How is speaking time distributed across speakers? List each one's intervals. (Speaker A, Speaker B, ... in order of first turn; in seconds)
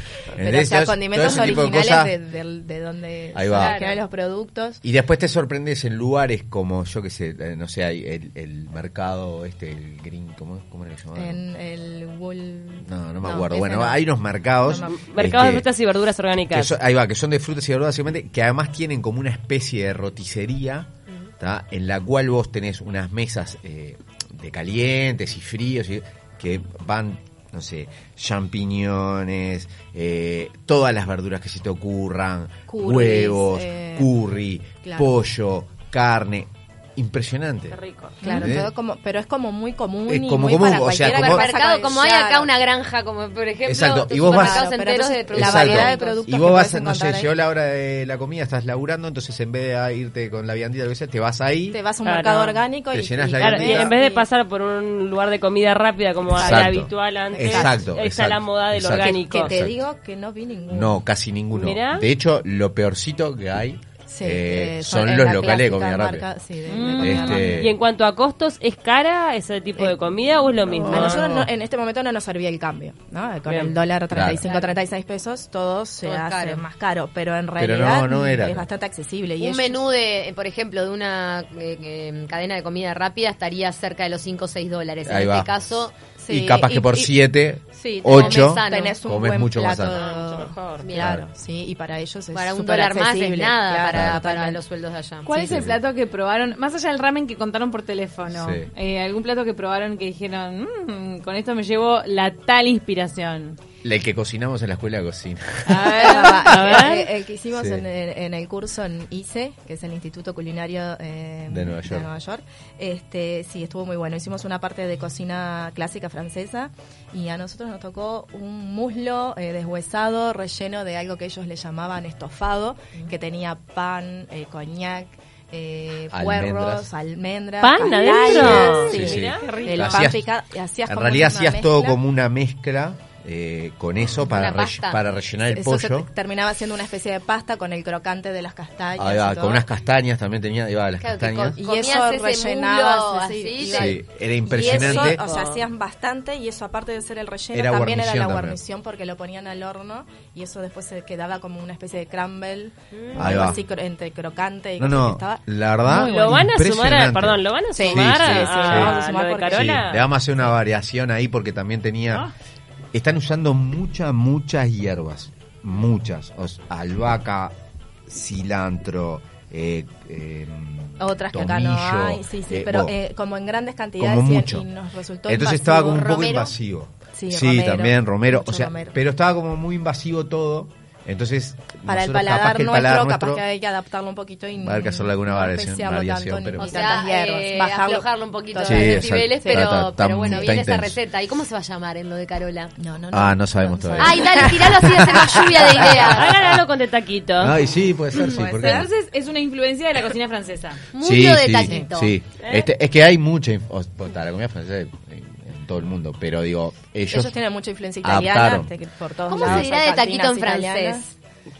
Speaker A: 0.3-2.1, 3.3-3.8, 4.8-11.4, 12.8-15.7, 16.5-20.9, 21.4-38.7, 40.1-41.5, 43.7-44.7, 45.3-51.8, 52.9-54.0, 56.3-59.8, 60.7-66.3, 67.0-67.8, 70.7-71.5, 74.1-74.4, 77.6-78.7, 85.0-85.6, 86.3-90.1, 91.0-91.2, 93.9-94.2, 95.3-95.8, 98.3-98.7, 103.8-106.3, 107.5-107.8, 111.5-112.1, 126.1-126.9, 128.3-130.3, 130.9-136.1, 139.0-141.6, 143.6-145.2, 147.5-148.6, 153.1-153.6, 154.8-159.0, 159.5-162.3, 162.9-167.6, 168.1-172.9, 174.0-174.7, 175.3-183.4, 184.6-187.0, 188.6-191.0, 193.1-196.2, 197.4-198.9, 201.0-207.3, 208.0-208.7, 209.4-209.7
Speaker B: 0.4-4.8, 11.2-14.1, 14.6-14.9, 32.7-34.1, 34.8-35.1, 38.2-42.5, 44.2-47.3, 51.7-54.3, 56.4-57.8, 59.0-61.0, 64.1-67.7, 70.8-79.9, 86.2-87.1, 87.7-94.6, 106.0-132.0, 135.4-139.7, 141.6-155.4, 157.8-159.8, 171.0-176.2, 177.1-179.0, 181.9-190.6, 192.8-195.9, 198.2-198.9, 207.1-211.1
Speaker C: 3.5-4.0, 41.0-46.2, 76.0-76.7, 79.4-85.9, 88.1-89.0, 90.8-91.1, 92.3-95.3, 134.3-135.0, 141.0-144.0, 175.8-176.6, 186.6-192.7, 194.0-196.3, 200.9-202.2, 209.3-211.1
Speaker D: 14.7-16.8, 37.7-38.4, 52.0-52.6, 53.4-59.5, 61.5-62.1, 67.0-71.3, 73.5-73.7, 89.9-90.9, 106.5-107.0, 127.6-129.5, 144.6-145.6, 155.9-160.1, 196.0-197.6
Speaker E: 66.7-67.5, 95.2-103.6, 105.7-106.8, 127.8-130.2, 155.9-156.5, 198.1-200.8